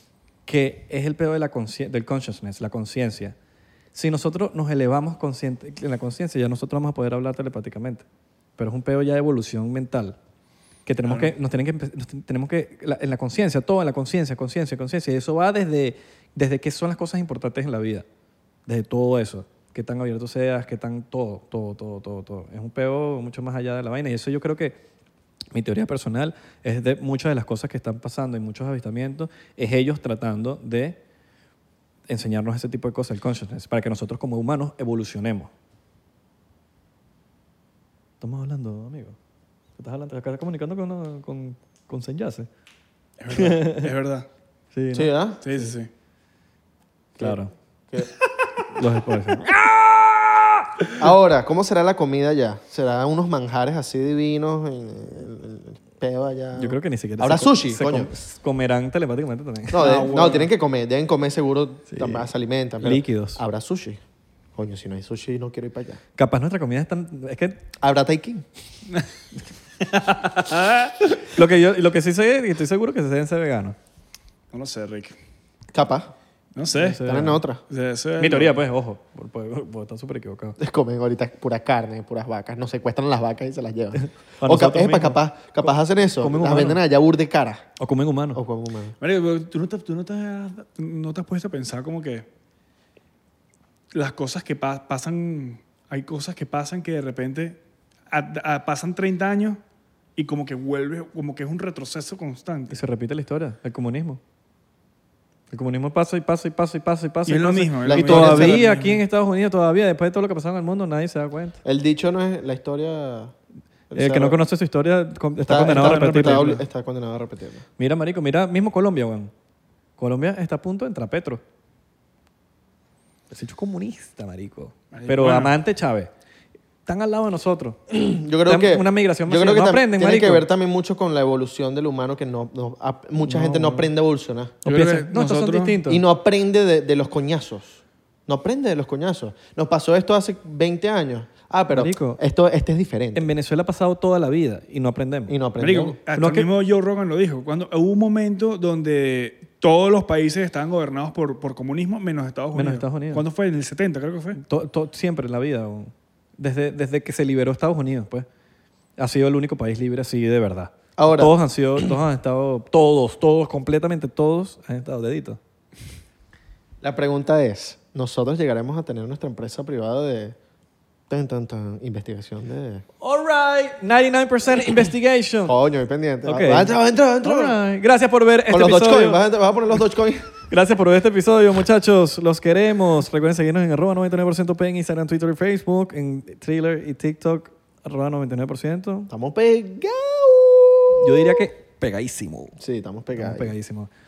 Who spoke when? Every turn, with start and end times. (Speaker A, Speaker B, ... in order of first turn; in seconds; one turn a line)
Speaker A: 0.5-3.4
Speaker A: 3.9-8.1
Speaker A: 8.6-10.2
Speaker A: 10.9-18.1
Speaker B: 11.1-11.3
Speaker A: 18.7-24.8
Speaker A: 25.5-31.0
Speaker A: 32.1-35.5
Speaker A: 38.2-39.2
Speaker A: 39.8-42.5
Speaker B: 43.2-44.3
Speaker A: 43.3-43.9
Speaker A: 44.7-45.7
Speaker C: 44.9-45.4
Speaker B: 45.4-45.9
Speaker A: 47.2-47.5
Speaker A: 48.7-49.7
Speaker C: 51.0-58.1
Speaker A: 56.6-60.0
Speaker C: 59.7-64.0
Speaker B: 59.8-60.5
Speaker A: 61.9-62.3
Speaker A: 62.8-63.4
Speaker C: 64.6-66.0
Speaker A: 66.2-67.6
Speaker C: 67.8-68.5
Speaker B: 70.3-70.7
Speaker A: 71.1-73.8
Speaker B: 74.5-75.2
Speaker C: 75.7-76.1
Speaker B: 76.5-77.0
Speaker A: 76.8-77.4
Speaker C: 77.0-77.6
Speaker B: 77.7-78.5
Speaker A: 78.2-80.6
Speaker C: 80.6-87.7
Speaker A: 84.0-85.7
Speaker A: 86.2-86.8
Speaker A: 87.8-88.4
Speaker C: 88.3-89.0
Speaker B: 89.0-92.3
Speaker B: 93.9-97.6
Speaker B: 98.1-99.6
Speaker B: 100.2-102.8
Speaker A: 102.7-104.2
Speaker A: 105.5-111.6
Speaker B: 107.3-109.0
Speaker C: 107.8-108.7
Speaker C: 111.6-113.3
Speaker C: 113.9-114.4
Speaker A: 113.9-116.6
Speaker C: 115.5-117.7
Speaker B: 115.7-116.5
Speaker A: 117.8-119.3
Speaker A: 120.0-121.4
Speaker A: 123.3-126.1
Speaker B: 124.9-125.6
Speaker A: 126.9-127.8
Speaker C: 127.9-134.6
Speaker A: 128.5-130.5
Speaker A: 133.2-133.9
Speaker A: 134.7-136.0
Speaker B: 134.7-135.8
Speaker C: 135.9-143.3
Speaker A: 141.7-142.2
Speaker A: 143.2-145.3
Speaker C: 145.3-146.0
Speaker B: 145.6-154.4
Speaker A: 146.1-146.5
Speaker A: 152.6-153.2
Speaker A: 154.4-158.3
Speaker A: 159.0-165.4
Speaker C: 161.0-161.3
Speaker C: 166.8-170.4
Speaker C: 171.1-172.8
Speaker A: 173.0-175.6
Speaker C: 175.5-177.6
Speaker A: 176.2-179.2
Speaker C: 178.5-180.3
Speaker A: 180.5-189.1
Speaker C: 189.1-191.4
Speaker A: 191.0-192.6
Speaker C: 192.6-193.5
Speaker A: 193.2-193.9